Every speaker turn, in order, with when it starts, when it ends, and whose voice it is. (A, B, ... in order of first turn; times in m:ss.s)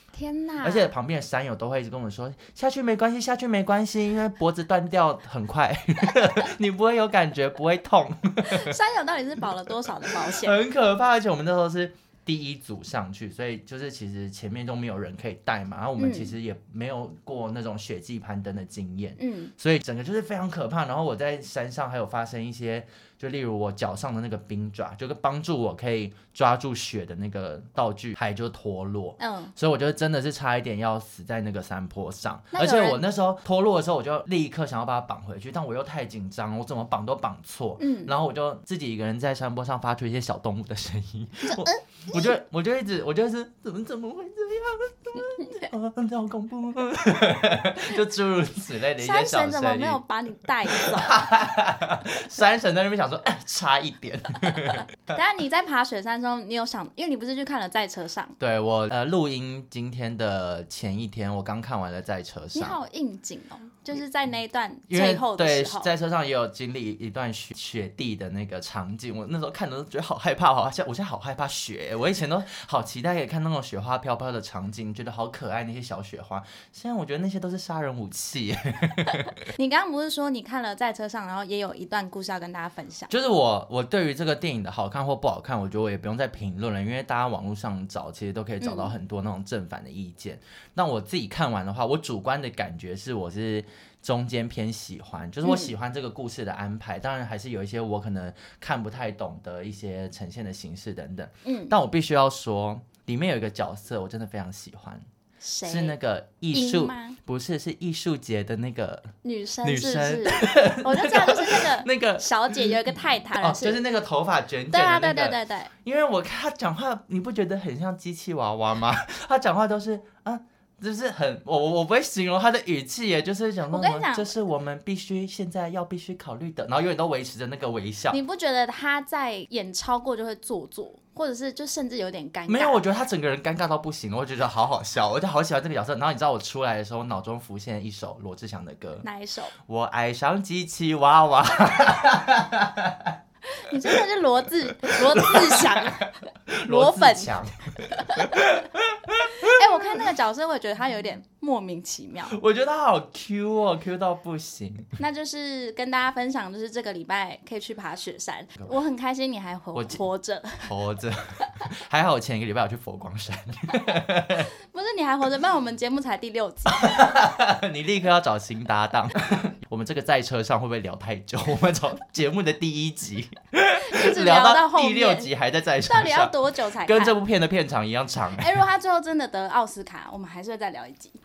0:00.1-0:00.9 A
0:00.6-0:08.8 B
0:08.5-0:10.6 A
0:09.8-0:50.0 B
0:16.0-0:16.4 A
0:19.2-0:19.5 A
0:29.2-0:29.5 A
0:32.5-0:33.0 A
0:37.8-0:38.1 A
0:41.5-0:42.4 A
0:49.0-0:51.3 A
0:50.7-0:55.0 B
0:55.1-0:58.4 A
0:58.4-1:02.8 B
1:02.5-1:05.9 A
1:04.9-1:19.5 B
1:19.5-1:23.1 A
1:23.1-1:45.1 B
1:28.6-1:28.9 A
1:35.4-1:35.7 A
1:41.4-1:41.8 A
1:45.4-1:46.0 A
1:45.6-2:08.2 B
1:46.5-1:47.2 A
1:49.2-1:53.8 A
1:54.7-1:55.7 A
2:03.7-2:04.4 A
2:08.1-2:12.8 A
2:12.5-2:19.1 B
2:19.0-2:19.5 A
2:19.6-2:23.2 B
2:23.5-2:28.5 A
2:24.7-2:30.0 B
2:29.4-2:32.4 A
2:32.3-2:35.0 B
2:35.0-2:40.7 A
2:39.7-2:40.0 B
2:40.6-2:44.5 B
2:44.5-2:47.1 A
2:46.7-2:58.6 B
2:53.8-2:55.3 A
2:55.8-2:57.2 A
2:58.4-3:01.2 A